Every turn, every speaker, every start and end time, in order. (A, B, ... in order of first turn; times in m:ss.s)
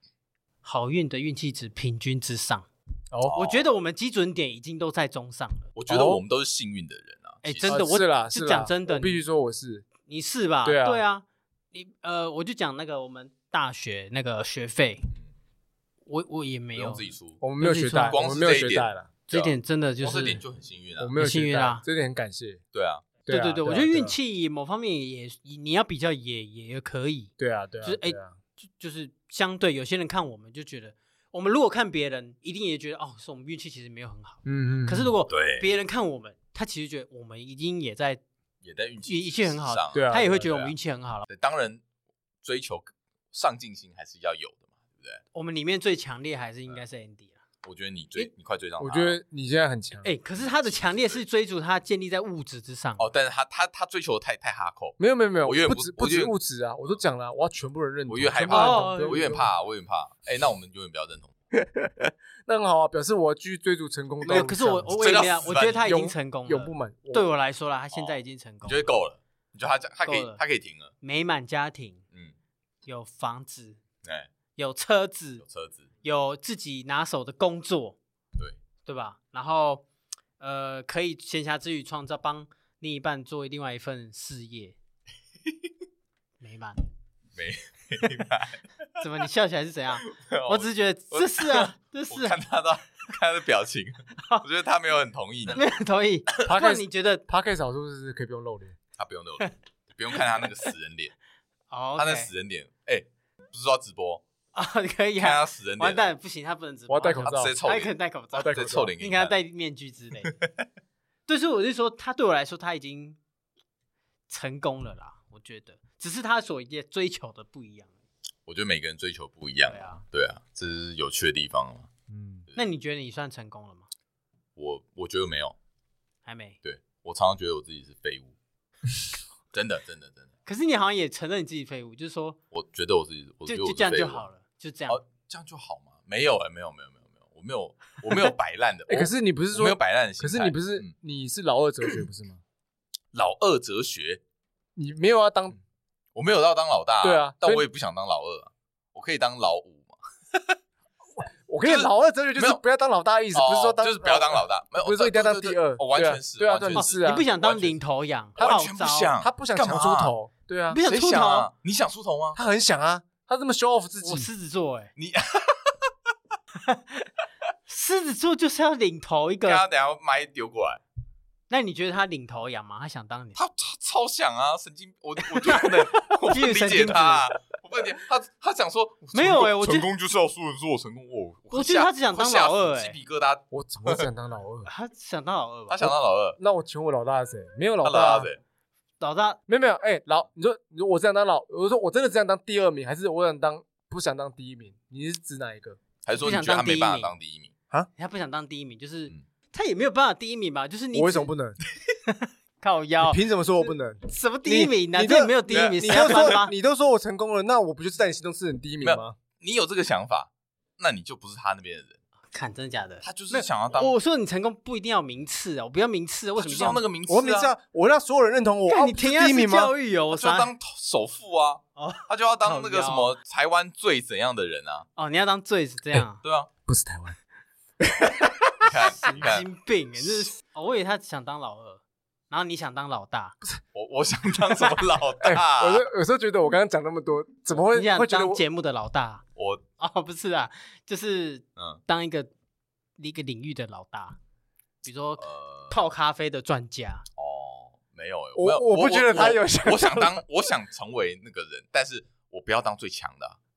0:00.6-0:02.7 A
0:03.2-0:03.6 B
0:03.3-0:05.7 A
0:05.8-0:07.8 B
0:05.9-0:06.2 C
0:07.4-0:09.2 A
0:07.6-0:09.9 C
0:10.0-0:15.1 A
0:10.6-0:11.0 C
0:16.1-0:17.0 A
0:16.7-0:17.4 B
0:17.4-0:19.1 C
0:17.6-0:18.2 A
0:17.9-0:21.1 B
0:19.3-0:20.4 A
0:21.0-0:22.6 C
0:21.2-0:21.8 A
0:22.7-0:23.1 B
0:23.2-0:24.1 C
0:23.3-0:27.3 A
0:27.4-0:28.4 C
0:27.8-0:38.2 A
0:34.4-0:35.1 C
0:35.3-0:35.7 B
0:38.6-0:40.7 B
0:39.0-0:41.3 A
0:39.9-0:40.5 C
0:41.3-0:41.8 B
0:42.4-0:45.2 B
0:45.3-0:47.4 A
0:47.6-0:49.2 B
0:48.8-0:50.1 C
0:50.0-0:53.0 A
0:50.4-0:51.2 B
0:53.0-0:56.3 B
0:55.0-0:59.5 C
0:58.1-1:01.3 B
0:58.5-0:59.3 A
1:01.5-1:05.0 C
1:04.2-1:08.9 A
1:04.3-1:05.9 B
1:05.7-1:07.2 C
1:07.9-1:10.9 B
1:10.0-1:10.4 A
1:11.0-1:12.0 A
1:12.8-1:13.8 A
1:14.0-1:14.3 B
1:14.6-1:15.4 A
1:15.4-1:15.9 B
1:16.0-1:18.0 A
1:18.8-1:19.8 A
1:20.4-1:24.8 A
1:26.4-1:26.8 A
1:27.3-1:28.6 B
1:29.0-1:32.4 A
1:30.0-1:35.6 B
1:35.5-1:37.2 A
1:36.4-1:38.8 C
1:39.0-1:41.1 B
1:41.7-1:42.3 A
1:42.0-1:44.2 B
1:44.5-1:50.4 A
1:45.2-1:46.1 B
1:46.9-1:47.5 C
1:47.2-1:49.3 B
1:48.4-1:48.9 C
1:51.3-1:53.2 A
1:54.3-1:57.9 A
1:58.5-2:01.9 B
1:59.7-2:00.0 A
2:02.1-2:02.4 C
2:02.5-2:03.9 A
2:04.6-2:05.5 B
2:06.2-2:06.6 A
2:06.6-2:08.3 B
2:09.5-2:10.3 B
2:10.4-2:12.4 A
2:12.5-2:14.2 B
2:13.4-2:15.0 A
2:14.9-2:20.9 B
2:18.9-2:22.4 C
2:23.1-2:24.2 B
2:24.8-2:25.6 C
2:26.1-2:30.6 B
2:27.0-2:27.6 C
2:31.2-2:37.3 C
2:31.6-2:32.6 B
2:33.3-2:37.8 B
2:36.7-2:39.2 A
2:38.4-2:40.1 B
2:39.2-2:40.8 C
2:40.7-2:41.5 A
2:40.8-2:42.4 B
2:42.3-2:44.3 C
2:44.0-2:44.9 A
2:45.0-2:45.8 B
2:46.6-2:47.1 A
2:47.7-2:49.6 A
2:49.4-2:50.8 B
2:51.5-2:53.4 A
2:53.3-3:04.1 B
2:55.2-2:57.3 A
2:59.1-2:59.9 A
3:01.5-3:03.0 A
3:03.5-3:04.7 C
3:04.6-3:05.9 A
3:05.7-3:06.4 B
3:06.4-3:08.3 C
3:07.8-3:08.4 B
3:09.0-3:09.4 A
3:09.5-3:15.8 C
3:16.0-3:17.5 B
3:16.2-3:17.1 A
3:18.0-3:21.3 A
3:20.9-3:21.6 C
3:22.1-3:23.2 A
3:23.0-3:29.2 C
3:24.0-3:26.5 A
3:25.5-3:26.4 B
3:28.8-3:32.0 B
3:32.3-3:36.8 A
3:33.0-3:34.0 B
3:36.4-3:37.5 B
3:37.1-3:39.7 C
3:38.7-3:40.5 A
3:40.1-3:44.9 B
3:41.8-3:43.1 A
3:45.0-3:46.2 A
3:46.2-3:46.5 B
3:46.6-3:47.2 C
3:47.8-3:48.5 C
3:48.6-3:49.5 B
3:48.7-3:53.4 A
3:53.7-3:55.8 B
3:55.2-3:58.4 C
3:57.7-3:59.2 A
3:59.4-3:59.6 B
3:59.8-4:02.3 A
4:03.0-4:04.2 A
4:04.8-4:07.0 A
4:05.2-4:05.8 B
4:07.2-4:13.4 B
4:08.4-4:10.2 C